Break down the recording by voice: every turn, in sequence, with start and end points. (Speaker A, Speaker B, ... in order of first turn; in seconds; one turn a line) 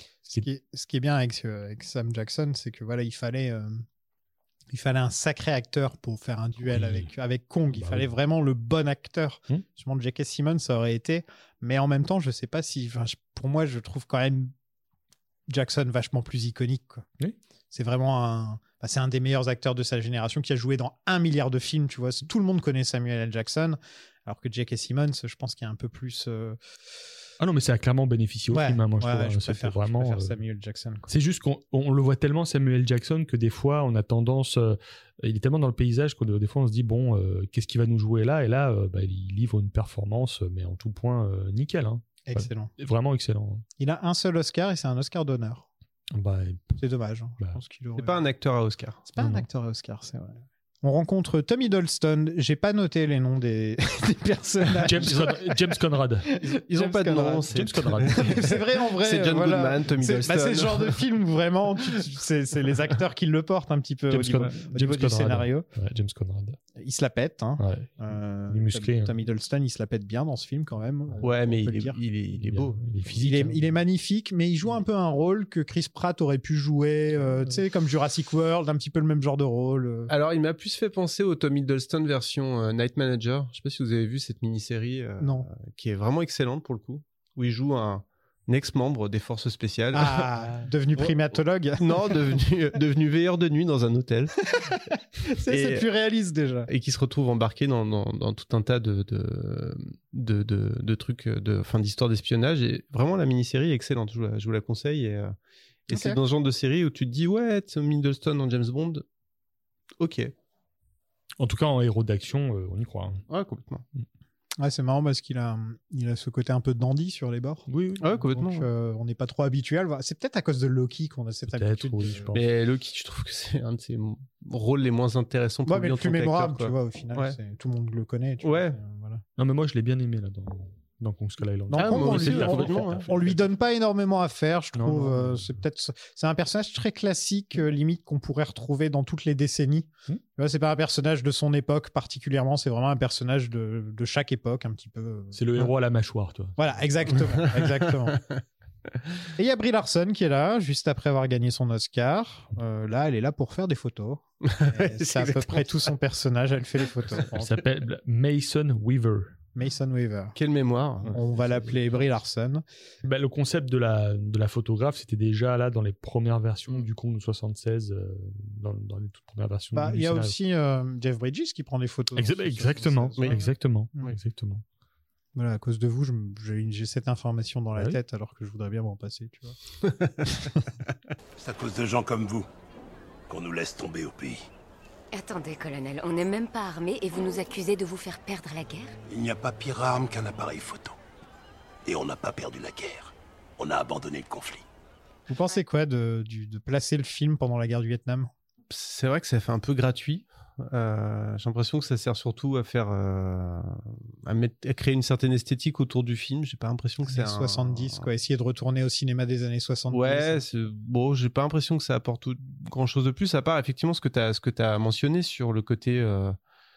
Speaker A: 0.2-3.8
Speaker A: 4.7-14.5
Speaker B: 6.6-7.1
Speaker B: 7.7-8.1
Speaker A: 15.5-17.1
Speaker A: 17.7-26.6
Speaker B: 27.4-30.4
Speaker A: 28.5-31.1
Speaker B: 31.1-43.6
Speaker A: 42.2-42.7
Speaker A: 43.8-45.7
Speaker B: 46.1-46.8
Speaker A: 46.8-48.2
Speaker C: 47.9-49.1
Speaker A: 49.1-55.7
Speaker B: 49.2-49.4
Speaker B: 54.9-56.3
Speaker A: 56.3-65.7
Speaker C: 56.4-61.0
Speaker B: 57.5-58.4
Speaker B: 64.1-66.6
Speaker A: 66.7-72.0
Speaker B: 67.6-69.2
Speaker C: 71.2-72.8
Speaker B: 72.4-73.8
Speaker A: 73.1-80.1
Speaker C: 80.1-90.3
Speaker A: 85.2-85.5
Speaker A: 89.9-92.4
Speaker C: 91.8-94.4
Speaker A: 94.5-96.7
Speaker C: 95.5-95.8
Speaker C: 96.7-105.3
Speaker C: 105.9-109.0
Speaker A: 105.9-106.2
Speaker C: 110.0-110.3
Speaker B: 111.4-113.2
Speaker C: 113.3-113.8
Speaker A: 114.6-117.7
Speaker B: 117.7-118.4
Speaker C: 118.0-118.6
Speaker A: 118.3-122.3
Speaker B: 121.5-122.5
Speaker C: 122.3-127.4
Speaker A: 125.7-129.2
Speaker C: 128.4-128.8
Speaker B: 129.4-133.3
Speaker A: 131.7-145.4
Speaker C: 131.7-133.3
Speaker B: 134.7-135.6
Speaker B: 145.3-146.6
Speaker A: 146.6-148.2
Speaker C: 147.6-148.2
Speaker A: 149.4-157.6
Speaker C: 154.4-155.9
Speaker B: 157.3-159.3
Speaker A: 159.5-160.3
Speaker C: 160.3-161.2
Speaker A: 161.1-162.6
Speaker B: 161.1-161.8
Speaker B: 163.0-170.3
Speaker A: 169.7-174.1
Speaker B: 172.2-174.6
Speaker C: 173.2-173.4
Speaker A: 175.3-179.6
Speaker C: 179.9-180.3
Speaker D: 181.4-182.5
Speaker D: 183.3-184.4
Speaker E: 185.1-189.0
Speaker D: 189.1-190.9
Speaker D: 191.8-194.6
Speaker A: 195.3-198.3
Speaker C: 198.7-208.1
Speaker A: 207.0-210.4
Speaker C: 209.9-216.3